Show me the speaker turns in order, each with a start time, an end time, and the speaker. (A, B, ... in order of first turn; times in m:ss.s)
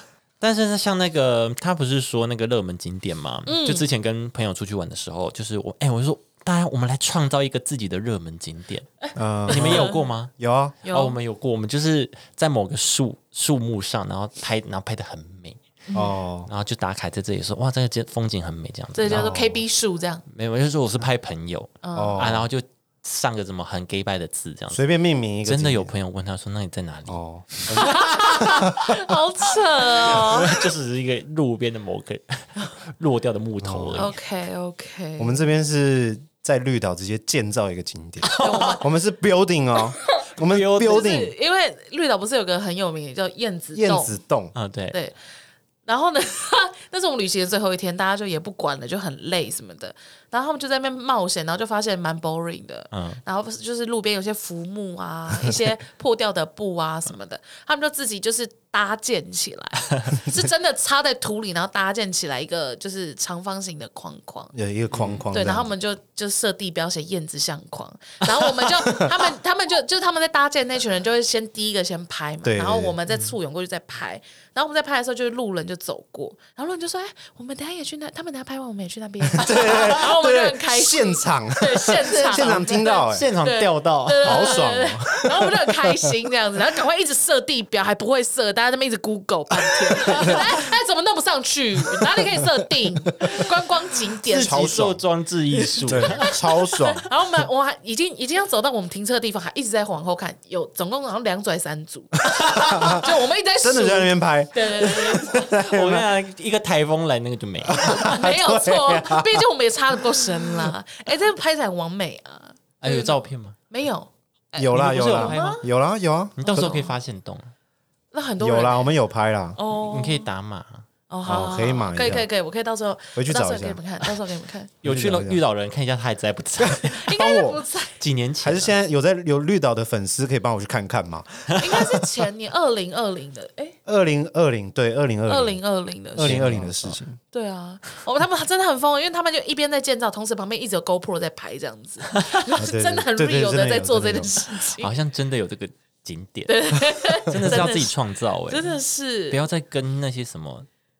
0:00.4-0:08.9 A
0:03.5-0:03.8 B
0:09.0-0:10.0 B
0:09.2-0:10.8 C
0:09.5-0:10.3 A
0:10.8-0:11.2 B
0:10.9-0:15.6 A
0:15.9-0:16.2 B
0:15.9-0:16.5 C
0:16.5-0:19.4 A
0:19.0-0:20.2 B
0:19.1-0:19.6 C
0:20.3-0:24.8 A
0:21.8-0:22.3 B
0:22.0-0:22.5 C
0:24.7-0:25.9 C
0:25.4-0:28.5 A
0:27.1-0:28.9 C
0:27.7-0:30.6 B
0:30.0-0:34.2 A
0:33.6-0:34.1 C
0:34.0-0:35.4 B
0:35.2-0:41.3 C
0:38.2-0:38.8 A
0:38.3-0:38.9 B
0:40.4-0:41.2 A
0:40.8-0:44.2 B
0:43.7-0:44.5 C
0:44.5-0:45.0 A
0:45.9-1:04.5 B
0:52.9-0:53.2 A
1:04.5-1:05.7 C
1:04.9-1:05.2 A
1:05.3-1:34.7 B
1:12.4-1:13.0 C
1:19.3-1:23.3 C
1:22.1-1:24.6 A
1:24.2-1:26.1 C
1:29.8-1:30.4 C
1:32.0-1:32.5 C
1:34.3-1:36.4 A
1:34.4-1:35.0 C
1:35.6-1:45.5 B
1:35.8-1:37.1 C
1:42.3-1:43.1 C
1:43.6-1:46.1 C
1:44.9-1:48.2 A
1:47.6-1:49.4 C
1:48.1-1:55.6 B
1:50.1-1:50.7 C
1:52.8-1:53.6 A
1:54.6-1:56.7 C
1:54.7-1:55.6 A
1:56.4-1:57.5 A
1:56.4-1:57.0 B
1:58.1-1:58.9 B
1:58.4-1:59.6 C
1:59.6-2:00.3 B
1:59.8-2:00.8 A
2:01.1-2:04.7 B
2:01.2-2:02.3 C
2:03.2-2:03.8 C
2:04.8-2:07.0 A
2:04.8-2:05.4 C
2:06.6-2:07.6 C
2:06.9-2:08.0 B
2:08.0-2:08.7 A
2:08.4-2:12.0 C
2:11.6-2:13.8 B
2:13.9-2:15.6 C
2:15.3-2:16.7 B
2:16.1-2:17.2 C
2:16.2-2:17.0 A
2:17.3-2:24.9 B
2:22.6-2:24.3 C
2:24.8-2:28.8 A
2:26.5-2:27.9 B
2:27.3-2:27.6 C
2:28.5-2:29.4 B
2:29.3-2:30.7 A